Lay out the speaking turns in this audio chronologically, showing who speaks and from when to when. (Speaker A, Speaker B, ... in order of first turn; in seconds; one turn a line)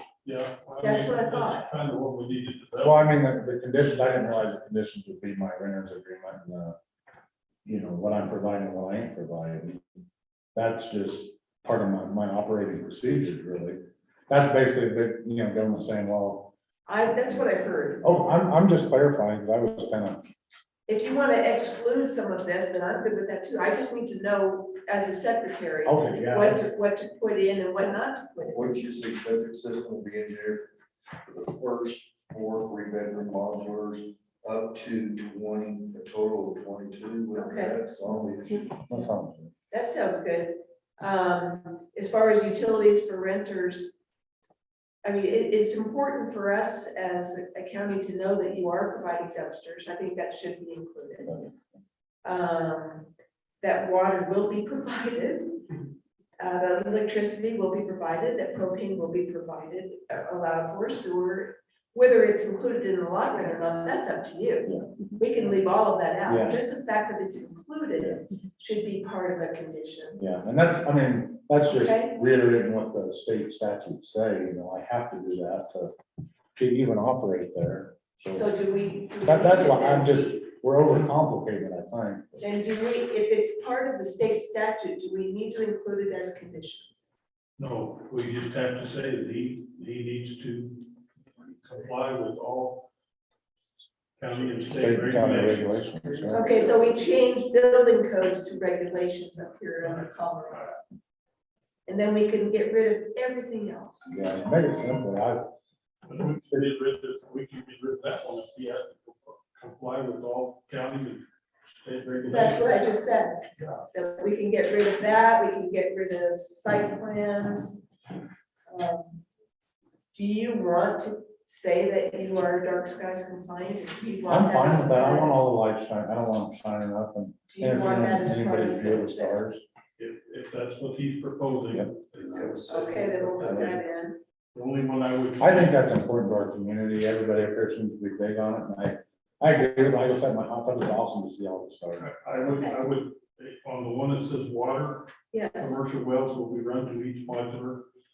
Speaker A: 0.2-3.1
Speaker B: 0.8-1.6
Speaker C: 2.8-6.8
Speaker C: 7.6-9.8
Speaker C: 10.5-13.8
Speaker C: 14.3-16.5
Speaker B: 16.9-18.2
Speaker C: 18.0-20.2
Speaker B: 20.9-28.7
Speaker C: 25.8-26.6
Speaker D: 28.5-30.7
Speaker D: 31.2-38.7
Speaker B: 37.3-37.7
Speaker C: 38.7-39.5
Speaker B: 39.7-44.0
Speaker B: 45.0-51.4
Speaker B: 52.2-53.1
Speaker B: 53.6-55.6
Speaker B: 56.4-70.2
Speaker C: 66.3-66.6
Speaker C: 70.2-75.9
Speaker B: 71.7-72.1
Speaker C: 76.5-78.5
Speaker B: 78.3-80.4
Speaker C: 79.2-82.4
Speaker B: 82.4-87.1
Speaker A: 87.6-90.8
Speaker A: 91.6-92.9
Speaker A: 94.2-96.3
Speaker C: 94.7-96.8
Speaker B: 96.3-100.8
Speaker A: 99.8-100.7
Speaker B: 101.9-104.2
Speaker C: 104.0-105.4
Speaker A: 106.0-113.0
Speaker B: 112.3-117.8
Speaker A: 113.5-113.8
Speaker B: 118.7-119.2
Speaker B: 120.1-125.4
Speaker C: 124.3-129.6
Speaker B: 127.5-129.6
Speaker A: 130.0-133.8
Speaker D: 132.1-132.8
Speaker B: 132.7-134.2
Speaker C: 133.4-133.8
Speaker A: 134.5-135.8
Speaker C: 135.4-142.1
Speaker A: 142.0-147.8
Speaker B: 142.4-142.8
Speaker B: 145.3-145.8